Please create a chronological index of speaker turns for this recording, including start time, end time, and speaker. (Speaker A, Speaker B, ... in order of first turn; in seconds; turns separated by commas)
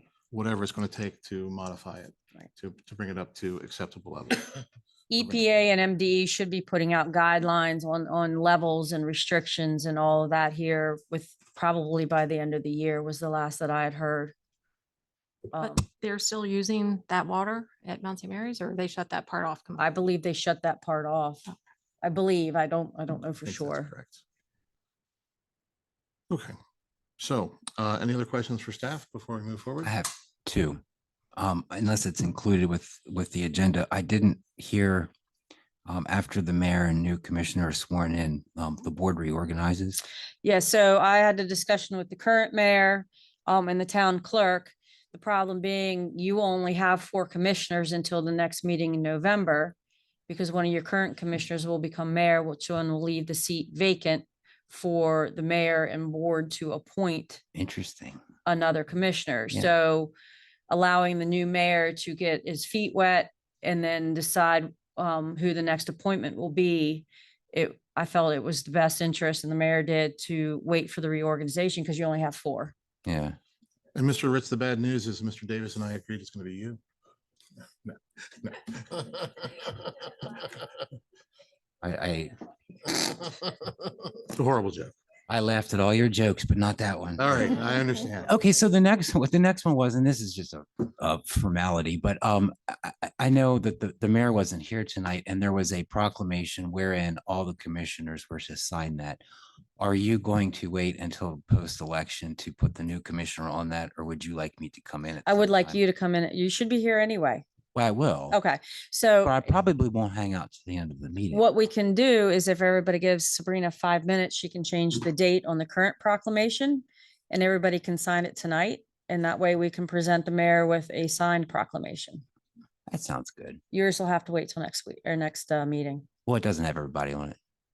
Speaker A: 0.3-4.6, Speaker B: 5.1-14.3, Speaker B: 15.5-15.8, Speaker C: 15.6-19.9, Speaker B: 19.8-21.4, Speaker B: 22.0-23.9, Speaker A: 23.4-24.2, Speaker A: 26.3-26.5, Speaker A: 27.2-29.9, Speaker D: 29.8-30.8, Speaker D: 31.4-35.1, Speaker D: 35.9-40.0, Speaker B: 40.4-49.7, Speaker B: 50.3-57.4, Speaker D: 57.5-58.2, Speaker B: 58.4-60.1, Speaker B: 60.7-72.7, Speaker D: 73.0-73.4, Speaker A: 73.9-76.8, Speaker A: 77.8-79.7, Speaker D: 81.8-82.3, Speaker A: 84.3-84.9, Speaker D: 85.3-87.5, Speaker A: 87.2-88.3, Speaker D: 88.2-99.2, Speaker D: 99.8-105.8, Speaker B: 105.2-107.4, Speaker D: 107.7-108.4, Speaker B: 108.3-109.5, Speaker D: 109.2-111.4, Speaker B: 111.3-122.2, Speaker D: 122.9-123.6, Speaker B: 123.7-126.1, Speaker D: 126.2-127.4